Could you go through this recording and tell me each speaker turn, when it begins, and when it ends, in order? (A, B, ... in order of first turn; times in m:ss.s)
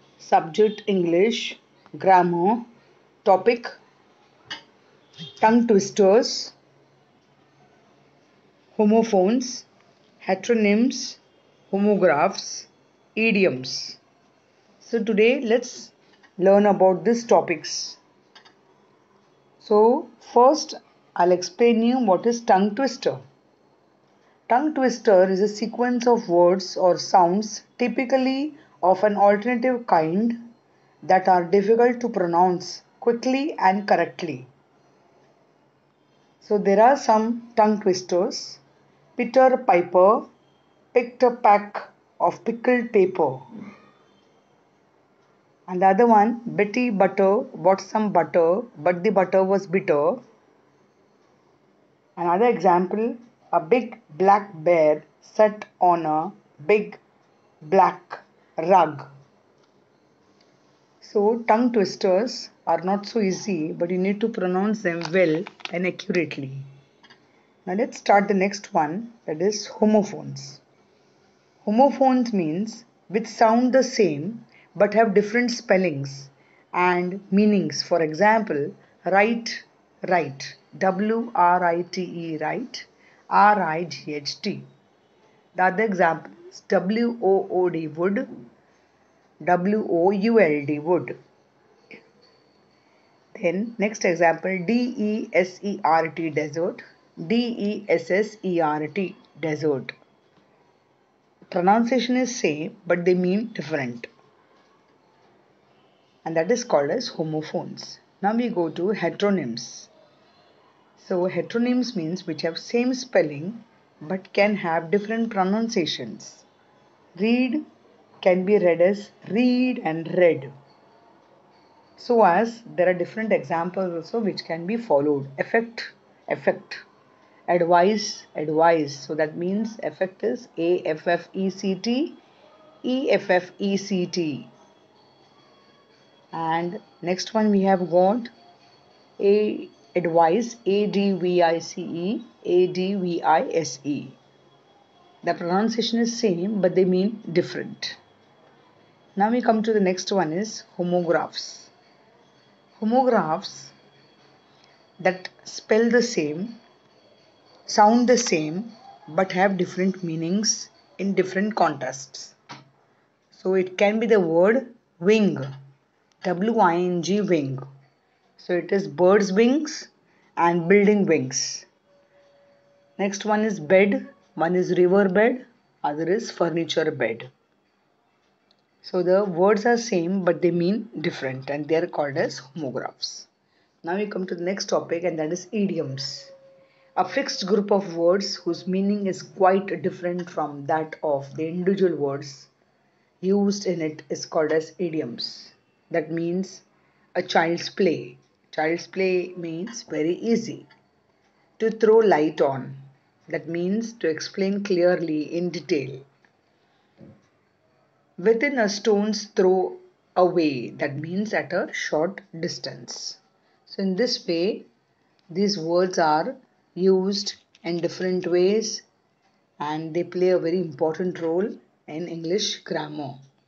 0:00.2-0:02.6 A
0:03.2-0:03.8 A
0:05.4-0:06.5 A
0:08.7-0:09.7 A
0:10.2-0:14.0 A
0:14.8-0:18.0 A
0:19.6-0:23.2 A
0:24.5-0:30.4 A
0:31.0-0:34.5 A
0:36.4-0:38.6 A
0:39.2-0:40.3 A
0:40.9-0:43.4 A
0:45.7-0:50.2 A
0:52.2-0:57.0 A
0:57.6-0:59.1 A
1:01.0-1:06.7 A
1:07.6-1:10.6 A
1:11.6-1:24.6 A
1:25.5-1:28.3 A
1:29.4-1:31.2 A
1:33.3-1:39.9 A
1:41.5-1:44.1 A
1:46.2-1:49.9 A
1:51.0-1:56.4 A
1:57.1-1:57.6 A
1:58.2-2:00.5 A
2:02.0-2:06.8 A
2:07.5-2:12.2 A
2:12.8-2:14.5 A
2:16.3-2:18.3 A
2:19.2-2:24.2 A
2:25.2-2:28.0 A
2:29.1-2:31.7 A
2:32.8-2:33.7 A
2:35.0-2:36.6 A
2:37.7-2:42.3 A
2:43.3-2:45.5 A
2:46.2-2:47.6 A
2:48.4-2:51.7 A
2:53.0-2:57.3 A
2:58.8-3:03.3 A
3:03.8-3:06.3 A
3:07.0-3:12.5 A
3:13.2-3:20.7 A
3:21.6-3:26.0 A
3:28.2-3:34.7 A
3:35.3-3:38.8 A
3:39.6-3:43.2 A